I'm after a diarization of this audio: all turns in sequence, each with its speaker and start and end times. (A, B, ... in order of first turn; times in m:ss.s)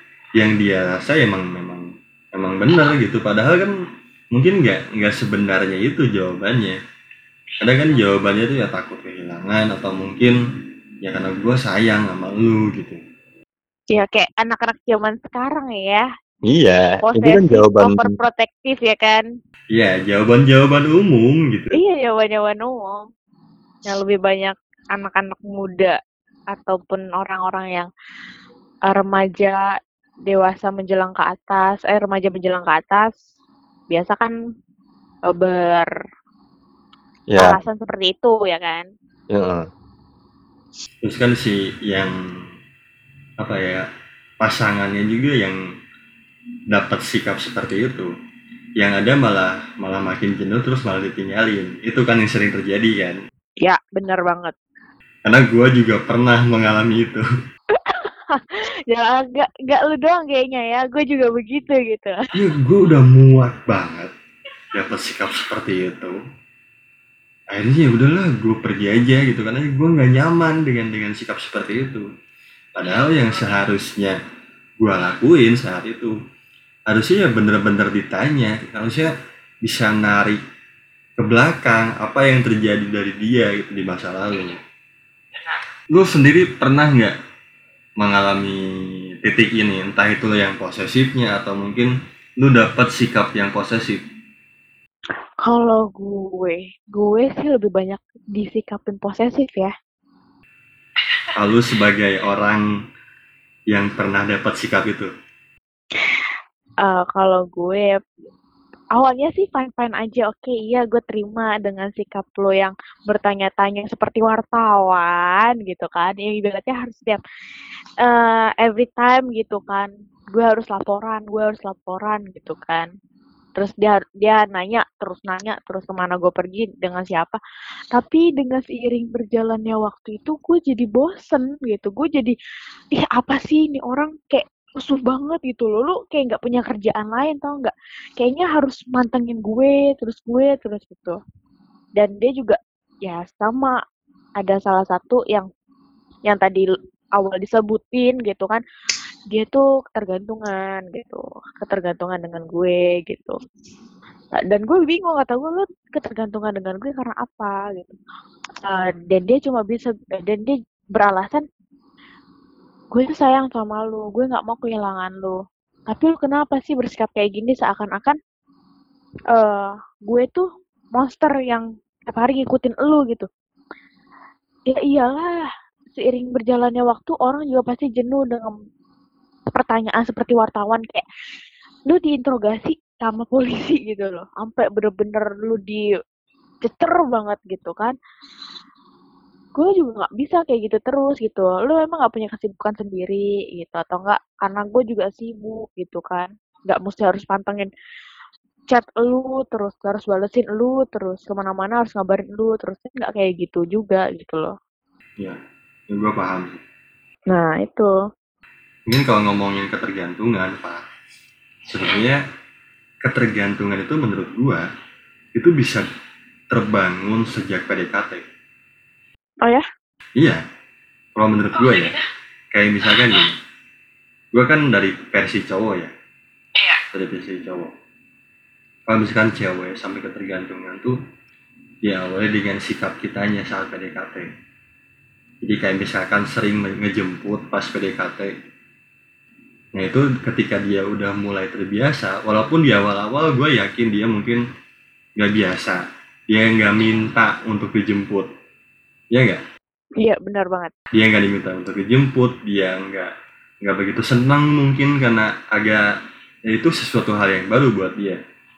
0:00.4-0:03.8 A
0:04.3-0:06.8 A
0:07.6-0:10.4 A
0:11.0-0:13.0 A
0:13.9-0:16.1 B
0:16.5-0:18.2 C
0:17.0-0:19.2 B
0:19.7-0:21.8 A
0:21.7-0:23.0 B
0:23.9-0:26.0 B
0:26.5-0:27.9 B
0:28.9-0:29.6 B
0:30.3-0:33.1 B
0:33.9-0:34.4 B
0:35.3-0:35.9 B
0:37.3-0:37.6 C
0:37.4-0:38.9 B
0:39.3-0:39.7 C
0:41.0-0:42.5 A
0:43.4-0:43.9 A
0:44.4-0:45.6 A
0:46.7-0:48.1 A
0:48.8-0:53.2 A
0:53.6-0:54.5 B
0:55.3-0:57.2 A
0:57.8-1:02.2 B
1:02.3-1:04.1 A
1:04.7-1:06.2 A
1:07.5-1:12.1 A
1:12.8-1:14.2 A
1:14.8-1:16.2 A
1:16.9-1:19.1 A
1:19.6-1:20.4 A
1:21.2-1:24.6 A
1:25.9-1:27.2 A
1:28.0-1:34.0 A
1:35.4-1:39.7 B
1:41.3-1:42.6 A
1:43.7-1:45.1 A
1:46.8-1:48.0 B
1:49.0-1:57.2 B
1:58.0-2:02.9 B
2:03.6-2:07.4 B
2:07.9-2:12.4 B
2:12.9-2:21.2 B
2:22.0-2:23.8 B
2:24.4-2:25.5 B
2:26.3-2:26.7 B
2:27.2-2:28.6 B
2:29.3-2:33.4 B
2:34.4-2:38.0 B
2:38.7-2:41.5 B
2:42.9-2:48.2 B
2:49.3-2:53.3 B
2:54.7-2:55.3 B
2:56.0-2:58.5 B
2:59.6-3:01.0 B
3:01.9-3:05.8 B
3:06.6-3:08.0 B
3:09.6-3:17.7 B
3:18.7-3:24.5 B
3:25.9-3:26.6 A
3:27.3-3:27.9 B
3:28.9-3:30.8 A
3:31.7-3:32.2 A
3:33.0-3:34.7 A
3:35.4-3:35.8 A
3:36.5-3:38.3 A
3:40.2-3:40.4 A
3:41.2-3:42.0 A
3:42.5-3:43.4 A
3:44.3-3:45.9 A
3:46.9-3:47.7 A
3:48.9-3:51.0 A
3:51.8-3:54.3 A
3:55.4-3:58.3 A
3:59.8-4:04.4 A
4:05.2-4:08.3 A
4:09.1-4:09.4 A
4:10.0-4:10.7 B
4:10.9-4:15.9 A
4:16.5-4:18.2 A